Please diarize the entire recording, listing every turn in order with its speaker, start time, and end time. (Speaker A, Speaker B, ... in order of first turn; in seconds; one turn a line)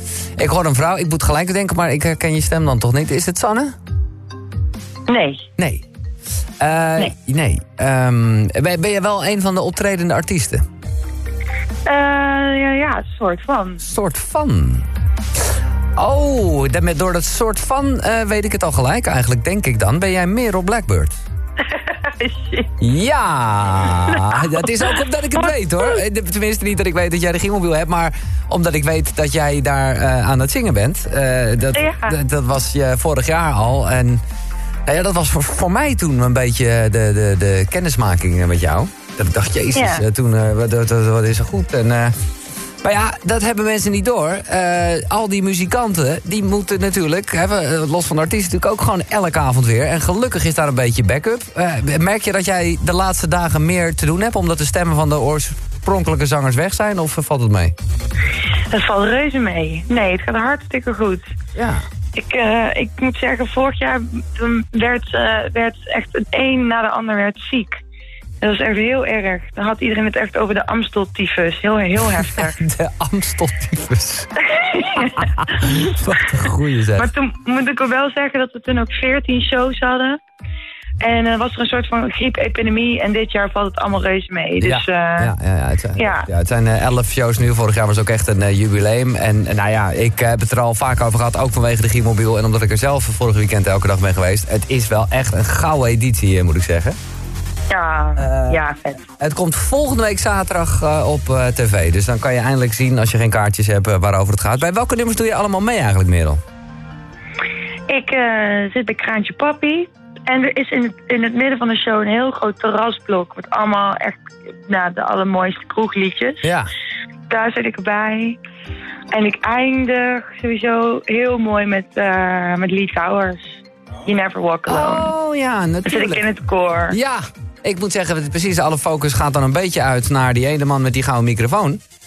Speaker A: 0.4-3.7
Speaker B: 5.1-5.5
Speaker A: 5.6-5.8
Speaker A: 6.6-10.6
Speaker B: 11.8-13.8
Speaker A: 13.8-14.9
Speaker A: 16.0-21.2
Speaker B: 21.6-22.7
Speaker A: 22.8-34.2
Speaker B: 23.9-24.7
Speaker B: 25.4-25.9
Speaker B: 31.7-32.2
Speaker A: 34.9-42.1
Speaker B: 39.7-40.0
Speaker A: 42.8-57.7
Speaker B: 58.7-61.3
Speaker A: 61.5-61.8
Speaker B: 62.1-67.8
Speaker B: 68.4-72.6
Speaker A: 72.2-74.3
Speaker B: 74.5-75.4
Speaker A: 75.2-77.1
Speaker B: 77.0-80.2
Speaker B: 81.0-85.3
Speaker A: 84.6-97.0
Speaker B: 86.0-86.3
Speaker B: 97.7-99.0
Speaker A: 98.2-98.6
Speaker A: 99.2-106.4
Speaker B: 107.9-116.5
Speaker A: 116.4-116.7
Speaker B: 117.3-118.4
Speaker B: 119.1-125.1
Speaker A: 124.7-126.2
Speaker B: 125.8-127.0
Speaker A: 126.9-131.8